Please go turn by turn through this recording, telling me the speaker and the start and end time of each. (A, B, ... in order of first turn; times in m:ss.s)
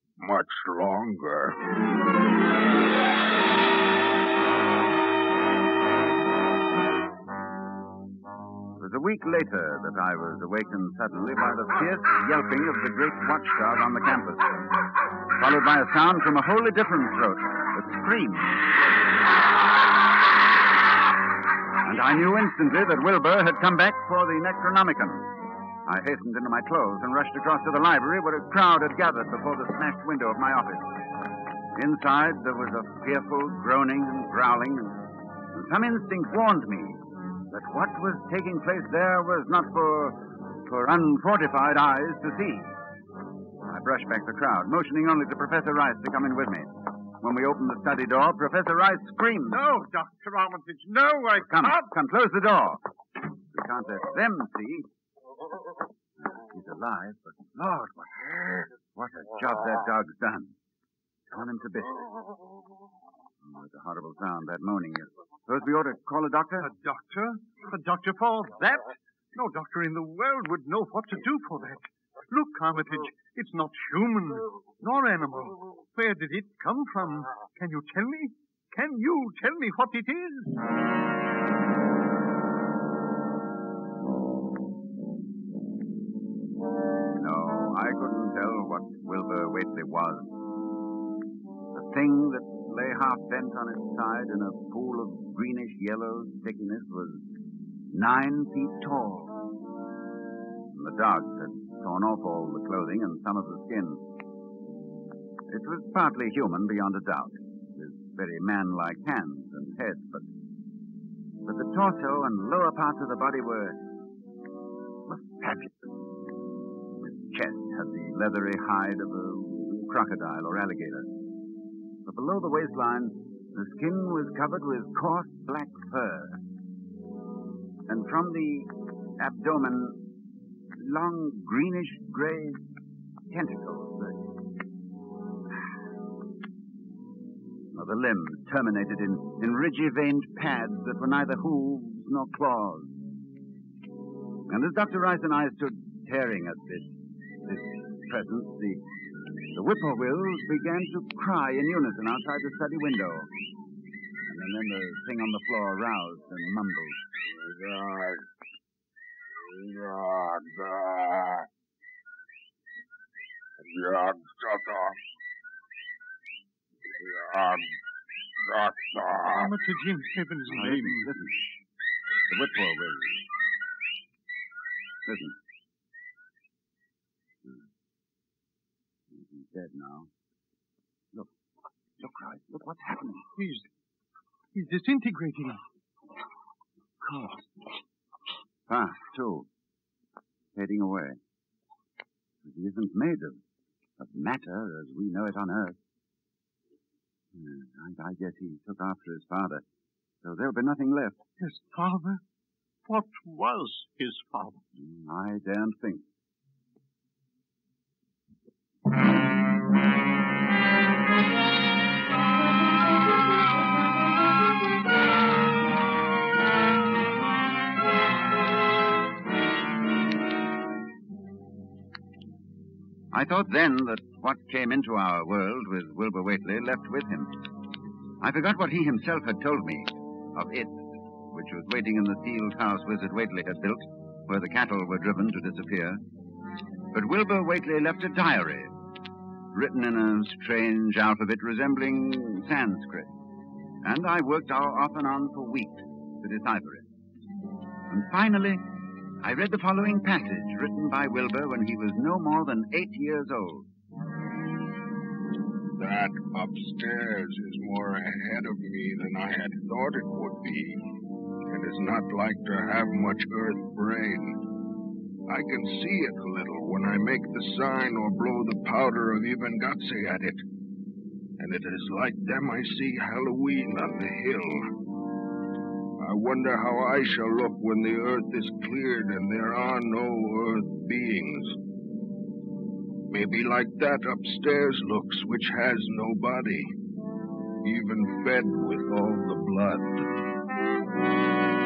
0:00.2-0:01.6 A
0:08.8-0:14.5 B
0:15.4-0:18.6 B
0:21.8-0:25.3 B
0:25.8-0:31.0 B
0:31.8-0:42.7 B
0:43.7-0:49.6 B
0:49.5-0:51.9 C
0:51.4-0:52.8 B
0:53.5-0:54.9 B
0:56.2-1:00.5 B
1:01.3-1:02.0 B
1:03.4-1:06.7 B
1:06.6-1:20.5 C
1:27.1-1:30.3 B
1:31.7-1:37.2 B
1:37.9-1:39.4 B
1:40.7-1:44.0 B
1:45.5-1:50.2 B
1:51.4-1:53.8 B
1:55.1-1:55.9 B
1:57.0-2:01.1 B
2:02.0-2:06.4 B
2:07.9-2:10.0 B
2:10.8-2:12.6 B
2:13.3-2:14.2 B
2:17.7-2:22.9 B
2:24.5-2:28.8 B
2:29.5-2:33.3 B
2:34.3-2:37.0 B
2:37.3-2:38.2 A
2:39.4-2:41.5 A
2:43.6-2:45.0 A
2:46.9-2:47.8 A
2:48.4-2:49.5 A
2:49.2-2:51.1 C
2:50.5-2:51.4 B
2:52.3-2:53.2 B
2:55.0-2:55.4 B
2:59.1-3:00.1 B
3:02.0-3:03.3 B
3:03.4-3:03.7 C
3:04.5-3:05.6 C
3:07.0-3:07.5 B
3:08.7-3:09.5 B
3:10.6-3:11.2 B
3:12.4-3:13.4 B
3:14.0-3:15.8 B
3:17.3-3:19.6 B
3:20.2-3:21.2 B
3:21.4-3:22.2 C
3:22.9-3:24.6 C
3:24.8-3:26.0 B
3:43.1-3:47.4 B
3:48.2-3:56.0 B
3:56.9-3:58.8 B
3:59.5-4:03.1 B
4:03.8-4:06.9 B
4:07.9-4:08.6 B
4:09.2-4:13.7 B
4:15.8-4:20.9 A
4:21.5-4:24.4 A
4:25.3-4:30.4 A
4:31.4-4:34.7 A
4:36.0-4:41.6 A
4:43.1-4:46.7 A
4:47.6-4:50.1 A